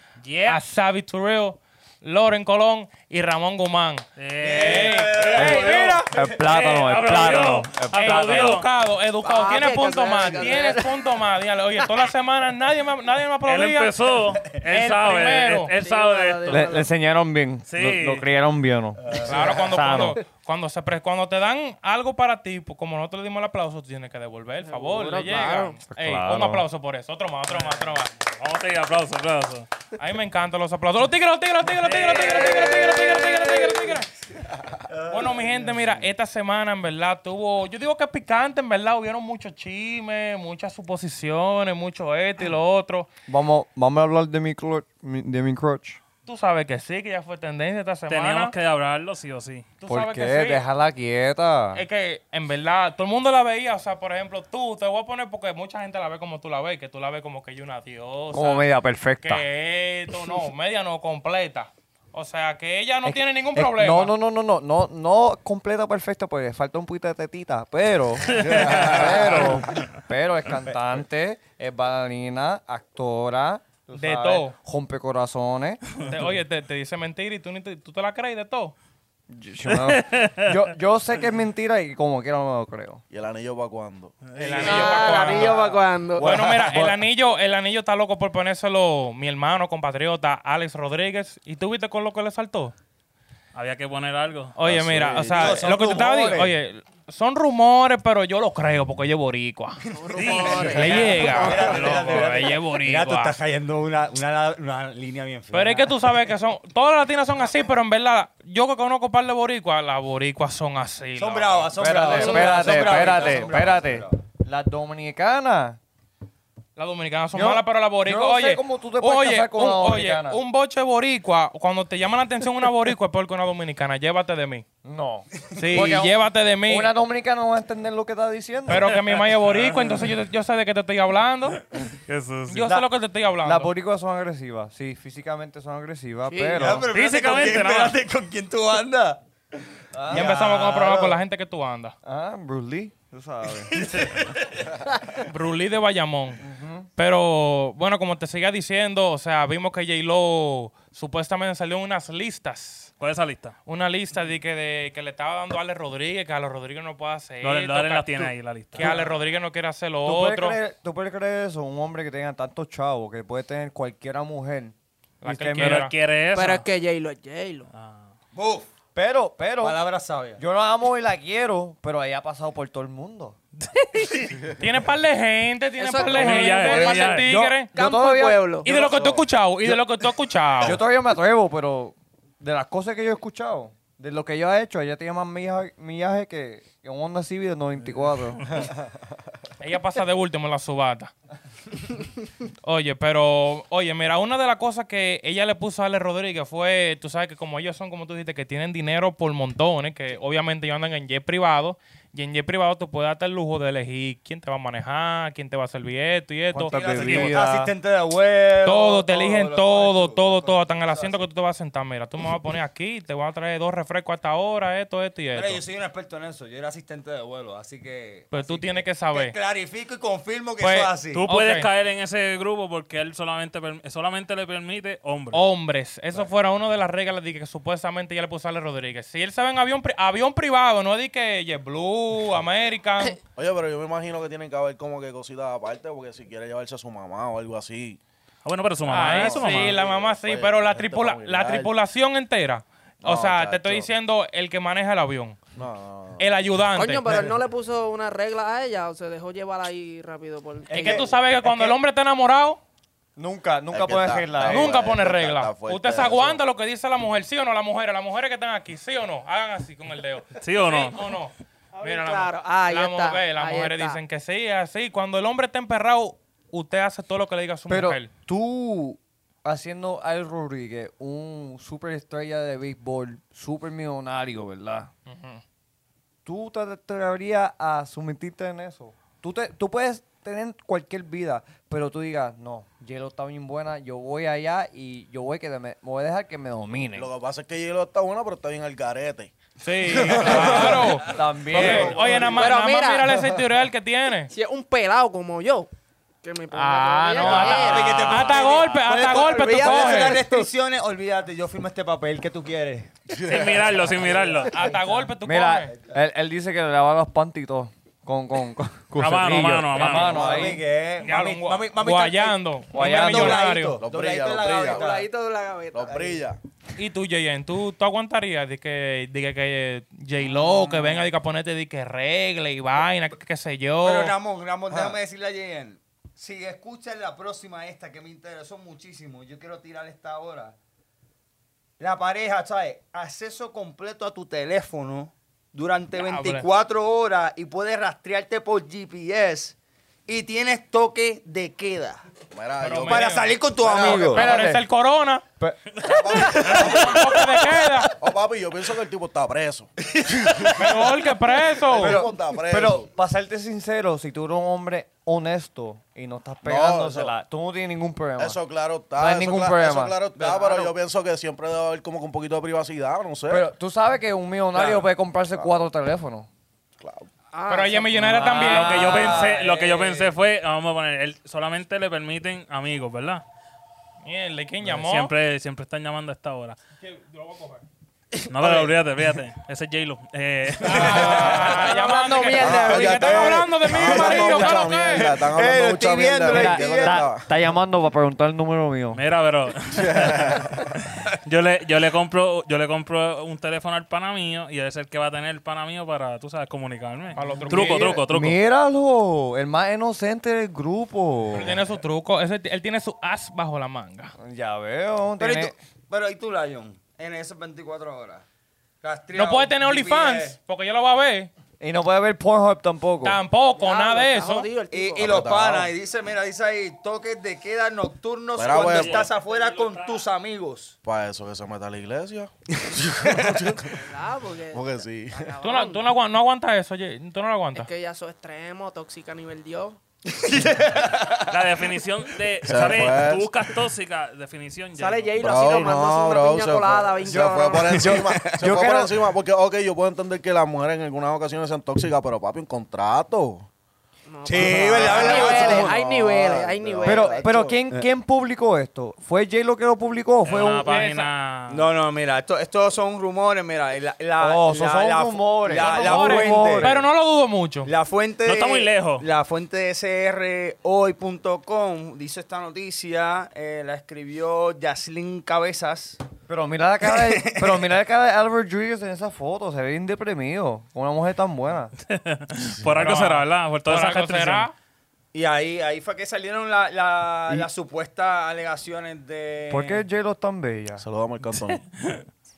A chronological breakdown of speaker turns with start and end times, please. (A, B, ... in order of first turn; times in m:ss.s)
0:00.2-0:00.6 A
0:00.5-0:06.2 B
0:04.2-0:05.6 A
0:04.4-0:06.2 C
0:05.3-0:08.6 D
0:06.3-0:08.7 A
0:07.1-0:14.0 B
0:09.2-0:10.9 E
0:13.4-0:16.7 A
0:14.5-0:15.7 B
0:15.8-0:16.9 E
0:16.5-0:20.2 D
0:17.7-0:18.2 A
0:19.0-0:19.7 C
0:19.2-0:28.1 B
0:24.6-0:25.8 E
0:25.9-0:26.6 D
0:27.5-0:29.7 A
0:30.0-0:34.1 B
0:31.8-0:32.9 A
0:32.6-0:33.3 C
0:34.9-0:35.9 C
0:35.1-0:43.1 B
0:43.3-0:46.0 D
0:46.3-0:48.5 B
0:48.1-0:49.7 A
0:49.8-0:50.6 B
0:49.9-0:51.8 D
0:51.7-0:58.7 B
0:58.3-0:59.4 D
0:59.2-1:04.1 B
1:03.0-1:15.9 D
1:08.3-1:09.8 A
1:08.4-1:09.5 F
1:14.0-1:14.6 B
1:16.0-1:18.8 B
1:19.3-1:23.0 D
1:19.7-1:20.5 A
1:23.1-1:24.2 F
1:24.2-1:25.4 A
1:24.4-1:25.6 B
1:24.6-1:26.4 E
1:25.3-1:27.0 D
1:26.2-1:32.7 B
1:33.5-1:34.6 A
1:34.6-1:39.8 B
1:34.6-1:35.7 F
1:35.3-1:36.5 C
1:39.8-1:46.0 C
1:40.1-1:42.3 A
1:40.7-1:43.4 B
1:45.5-1:52.4 B
1:51.2-1:54.2 C
1:51.8-1:55.8 D
1:52.1-1:53.0 E
1:56.8-2:04.6 B
1:57.3-2:00.4 D
2:04.8-2:08.9 D
2:05.5-2:06.9 B
2:08.7-2:11.6 B
2:09.5-2:10.0 A
2:12.1-2:12.7 A
2:12.5-2:13.7 B
2:13.4-2:16.9 D
2:16.3-2:16.6 E
2:16.6-2:19.2 C
2:16.9-2:18.0 A
2:19.9-2:20.3 D
2:20.1-2:21.2 C
2:20.1-2:22.0 B
2:22.0-2:23.8 D
2:23.6-2:24.3 C
2:23.8-2:24.2 A
2:25.2-2:26.4 B
2:26.4-2:26.9 D
2:27.0-2:32.9 B
2:33.0-2:33.6 A
2:33.7-2:40.6 B
2:37.4-2:39.0 A
2:38.8-2:39.1 D
2:40.0-2:45.8 D
2:45.2-2:45.9 B
2:45.6-2:46.7 A
2:46.3-2:47.7 E
2:47.7-2:48.1 A
2:48.3-2:48.7 C
2:49.0-2:49.8 D
2:49.6-2:50.4 C
2:50.4-2:53.4 D
2:53.7-2:54.3 A
2:54.5-2:57.7 B
2:55.8-2:58.7 E
2:56.1-2:57.4 A
2:57.6-2:58.6 D
2:58.6-3:00.8 B
2:58.6-2:59.2 F
3:00.6-3:08.6 D
3:09.6-3:11.1 B
3:12.6-3:26.8 B
3:26.5-3:27.7 D
3:26.7-3:31.3 C
3:28.6-3:35.6 B
3:35.3-3:41.2 C
3:38.3-3:39.4 B
3:40.6-3:41.7 B
3:41.1-3:45.4 A
3:45.3-3:53.2 B
3:53.4-3:58.0 F
3:58.4-3:59.8 A
3:58.9-4:05.4 B
3:59.1-4:01.7 F
4:03.0-4:03.9 F
4:05.6-4:06.4 F
4:06.2-4:07.2 B
4:06.7-4:11.2 E
4:10.7-4:11.8 D
4:10.8-4:12.6 B
4:13.2-4:14.8 D
4:13.7-4:16.4 F
4:14.4-4:28.1 B
4:20.4-4:21.1 A
4:21.8-4:24.0 E
4:27.7-4:34.9 D
4:35.1-4:35.4 B
4:36.2-4:47.1 D
4:46.9-4:49.3 F
4:49.6-4:54.3 B
4:49.9-4:51.0 F
4:50.2-4:52.0 D
4:51.5-4:52.2 C
4:51.6-4:52.4 F
4:52.3-4:53.2 E
4:54.3-4:55.7 E
4:56.2-4:58.4 E
4:56.5-5:00.2 B
4:57.2-5:02.9 C
5:03.1-5:03.9 F
5:03.2-5:04.6 A
5:04.4-5:05.1 C
5:04.5-5:05.7 B
5:05.2-5:10.6 D
5:09.0-5:10.6 A
5:09.8-5:15.2 C
5:11.0-5:13.8 B
5:12.7-5:13.4 D
5:13.8-5:15.0 F
5:14.5-5:16.2 E
5:15.7-5:16.4 F
5:16.8-5:24.2 B
5:23.8-5:30.6 C
5:24.7-5:25.0 F
5:31.8-5:39.6 C
5:36.0-5:36.5 B
5:40.1-5:42.0 C
5:42.3-5:44.2 F
5:42.6-5:45.2 B
5:42.9-5:44.3 C
5:43.9-5:44.6 D
5:45.8-5:47.2 F
5:46.1-5:48.0 B
5:48.0-5:50.7 F
5:50.0-5:50.6 C
5:50.5-5:52.0 B
5:51.6-5:52.9 F
5:51.9-5:58.4 D
5:56.4-5:57.1 F
5:58.2-6:03.5 F
5:59.0-6:00.0 D
6:00.2-6:00.7 C
6:03.3-6:06.3 D
6:05.3-6:05.6 F
6:06.8-6:07.1 F
6:07.3-6:08.4 E
6:07.5-6:08.9 B
6:07.9-6:09.4 D
6:08.3-6:13.2 A
6:08.7-6:10.1 C
6:14.0-6:15.1 B
6:14.6-6:16.6 A
6:16.8-6:17.6 B
6:18.2-6:18.7 C
6:18.3-6:21.4 A
6:20.6-6:25.1 B
6:20.8-6:21.1 C
6:21.2-6:23.4 E
6:22.4-6:27.3 F
6:23.9-6:27.1 C
6:26.3-6:29.0 D
6:28.9-6:38.4 A
6:29.7-6:30.7 F
6:37.2-6:38.0 B
6:37.5-6:41.6 D
6:41.3-6:44.1 B
6:44.2-6:45.5 D
6:45.2-6:48.2 C
6:48.8-6:50.4 C
6:49.1-6:51.3 B
6:51.6-6:53.2 D
6:53.0-6:54.5 B
6:53.6-6:55.1 E
6:54.7-7:00.8 C
6:55.0-6:55.7 F
6:58.4-6:59.1 F
6:58.6-7:00.0 A
7:00.8-7:03.8 F
7:03.6-7:05.8 E
7:04.5-7:05.3 F
7:05.4-7:07.7 B
7:07.6-7:09.8 E
7:10.2-7:11.2 C
7:11.2-7:15.1 A
7:12.4-7:13.3 F
7:14.8-7:17.9 E
7:15.2-7:23.5 F
7:17.1-7:18.9 D
7:17.8-7:18.4 C
7:24.1-7:27.3 E
7:24.3-7:25.7 C
7:24.4-7:27.6 F
7:25.1-7:25.6 D
7:26.8-7:30.7 D
7:30.2-7:31.7 A
7:30.7-7:31.1 B
7:31.5-7:36.8 C
7:34.2-7:36.8 D
7:35.5-7:37.7 B
7:37.6-7:46.0 C
7:38.3-7:39.1 A
7:46.3-7:51.7 D
7:46.9-7:47.6 C
7:51.9-7:54.5 A
7:52.8-7:54.5 B
7:55.1-7:59.8 C
7:59.5-8:00.8 D
8:00.8-8:01.6 F